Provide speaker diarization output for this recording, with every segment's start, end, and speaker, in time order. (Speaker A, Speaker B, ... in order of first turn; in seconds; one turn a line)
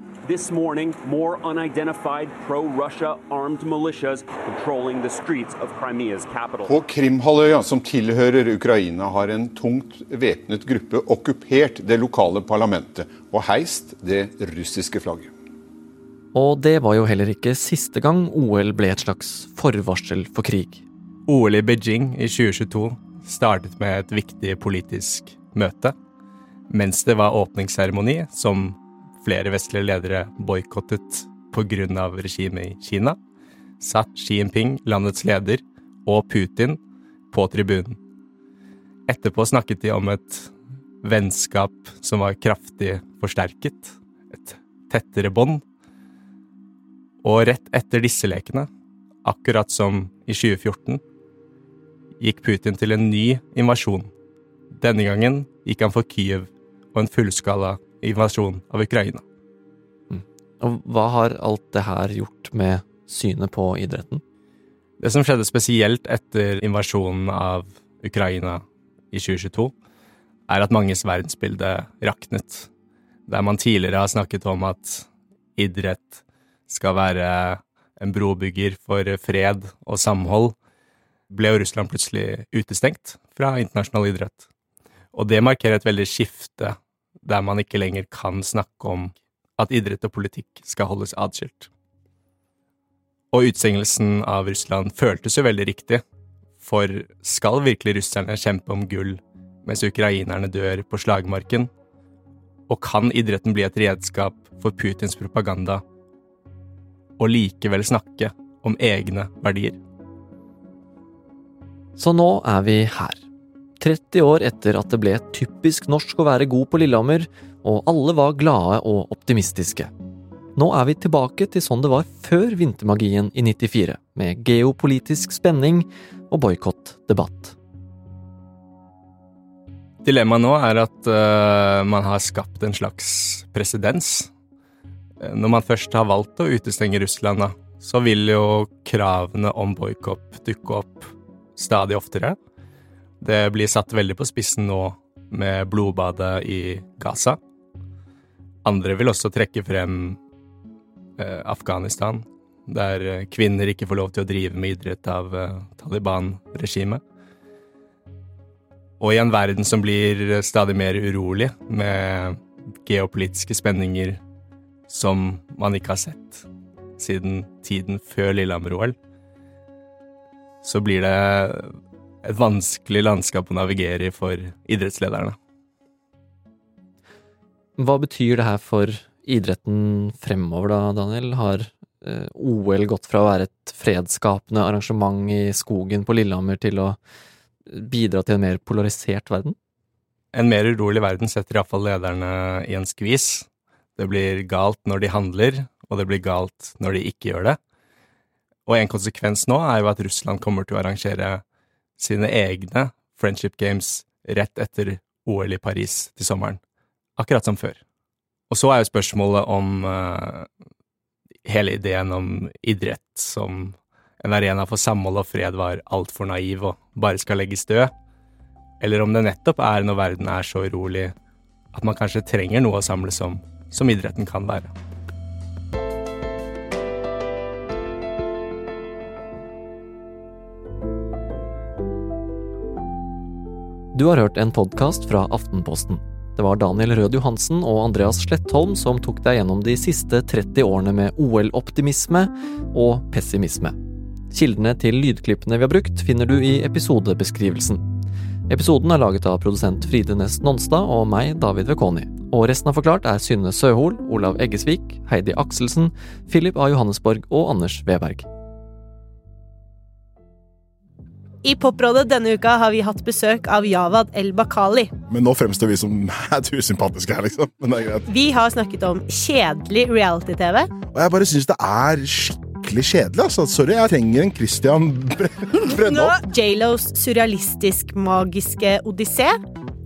Speaker A: 0.2-6.8
Speaker B: 6.6-15.3
Speaker C: 16.3-20.8
Speaker D: 21.3-25.9
Speaker D: 26.7-33.2
Speaker D: 33.8-36.8
Speaker D: 37.3-38.0
Speaker D: 39.1-40.5
Speaker D: 41.0-45.6
Speaker D: 47.2-48.7
Speaker D: 49.2-51.0
Speaker D: 52.2-54.1
Speaker D: 54.8-59.2
Speaker C: 60.1-64.2
Speaker D: 65.0-69.7
Speaker D: 70.5-72.7
Speaker D: 73.3-80.5
Speaker D: 81.3-84.4
Speaker D: 85.1-91.7
Speaker D: 93.3-96.0
Speaker D: 96.6-101.7
Speaker D: 102.7-105.8
Speaker D: 107.2-109.8
Speaker C: 112.0-113.2
Speaker C: 113.8-119.9
Speaker C: 120.5-127.5
Speaker D: 130.0-134.3
Speaker D: 135.2-142.4
Speaker D: 143.2-147.4
Speaker D: 148.6-150.2
Speaker D: 151.2-157.0
Speaker D: 159.0-164.2
Speaker D: 164.9-166.4
Speaker D: 167.0-169.0
Speaker D: 170.6-171.7
Speaker D: 172.2-175.4
Speaker C: 177.8-187.0
Speaker C: 187.7-189.6
Speaker D: 190.3-197.6
Speaker D: 198.7-201.4
Speaker D: 202.0-206.6
Speaker D: 207.2-207.8
Speaker D: 208.5-210.5
Speaker D: 211.4-217.9
Speaker D: 218.8-221.1
Speaker D: 221.7-224.7
Speaker C: 233.9-243.8
Speaker C: 244.3-247.9
Speaker C: 248.5-258.2
Speaker E: 261.4-264.9
Speaker F: 265.1-268.1
Speaker E: 268.1-270.7
Speaker F: 270.9-276.2
Speaker E: 275.6-279.4